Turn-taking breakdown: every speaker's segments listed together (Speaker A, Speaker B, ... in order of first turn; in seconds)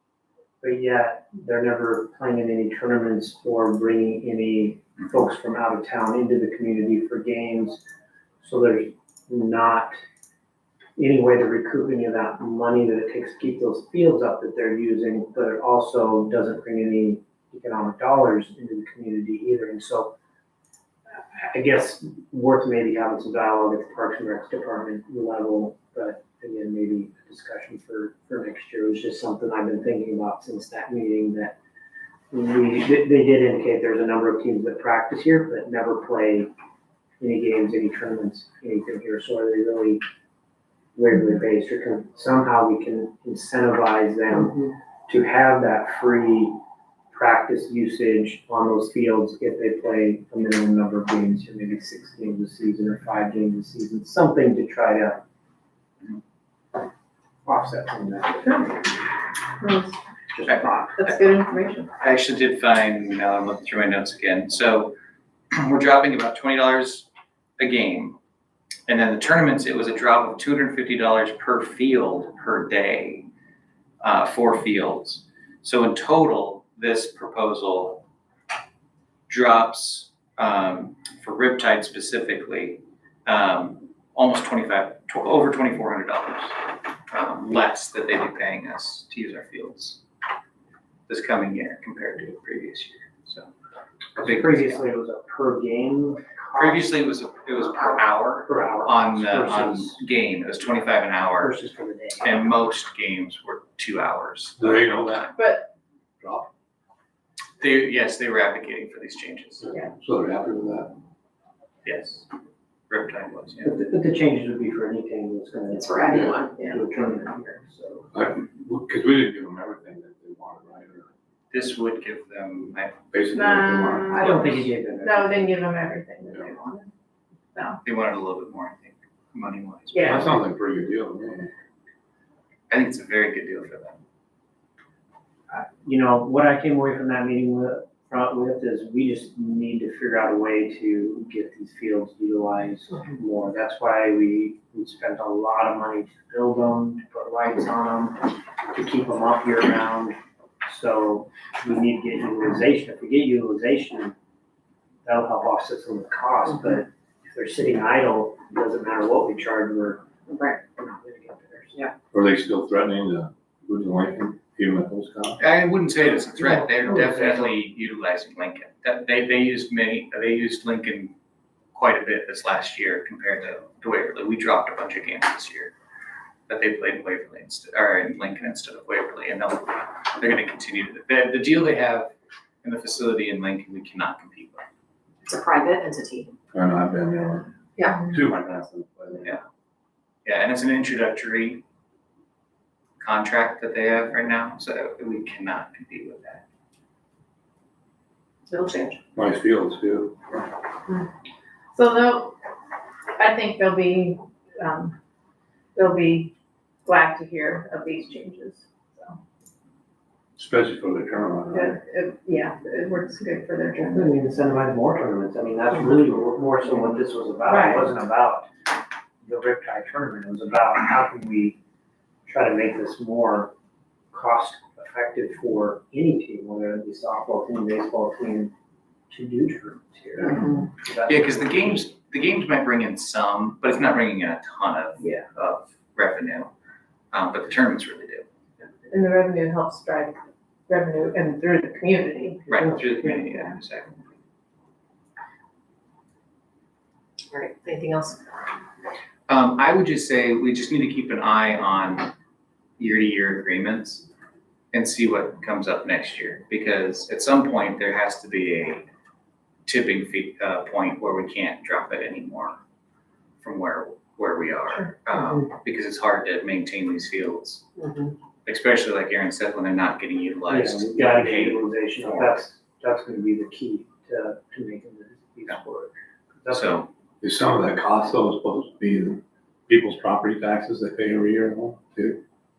Speaker A: 0.6-7.8, 8.4-9.9, 11.0-20.1, 21.3-31.6, 32.3-36.5, 37.2-40.0, 41.0-44.6, 45.1-46.6, 47.1-55.2, 57.4-58.8, 60.3-61.0, 94.2-96.9, 98.4-100.0, 101.4-102.4, 113.6-118.1, 124.1-125.5, 135.5-154.2, 155.1-160.1, 160.7-161.8, 166.4-167.5, 213.8-218.5, 219.2-221.6, 222.3-223.5, 224.1-228.5, 229.1-231.8, 235.0-235.2, 270.5-276.9
Speaker B: 44.3-44.7, 115.7-116.5, 160.3-160.6, 185.2-186.3, 187.8-188.1, 198.5-199.0, 230.2-230.6, 242.6-243.0, 247.3-248.2, 265.1-265.4, 267.8-268.1
Speaker C: 59.6-60.0, 61.0-61.9, 105.4-105.7, 123.3-126.9, 127.5-127.8, 129.9-130.2, 201.7-202.3, 203.2-205.0, 205.8-206.3, 206.9-209.2, 211.5-214.1, 217.5-217.8, 238.9-240.2, 240.7-242.5
Speaker D: 60.5-61.1, 62.0-64.9, 65.5-67.0, 67.6-68.2, 68.9-73.3, 74.0-78.0, 79.3-90.0, 91.1-93.5, 94.1-94.9, 96.5-101.5, 102.2-105.3, 107.6-109.7, 111.8-112.3, 112.9-113.7, 121.5-123.0, 127.8-130.3, 132.7-134.0, 165.4-171.1, 171.7-175.7, 176.5-182.1, 182.6-184.6, 190.2-191.6, 193.0-196.4, 231.1-236.5, 237.1-238.2, 242.5-244.0, 249.3-252.1, 252.8-254.1, 254.7-258.9, 259.7-262.6, 263.4-267.6, 268.4-272.4, 276.5-276.9
Speaker E: 104.6-105.3, 106.2-106.5, 109.6-110.9, 116.1-116.4, 118.1-121.1, 123.1-124.4, 130.0-131.5, 162.1-165.4, 186.5-187.5, 188.0-189.3, 199.2-200.2, 210.4-211.8, 277.2-282.2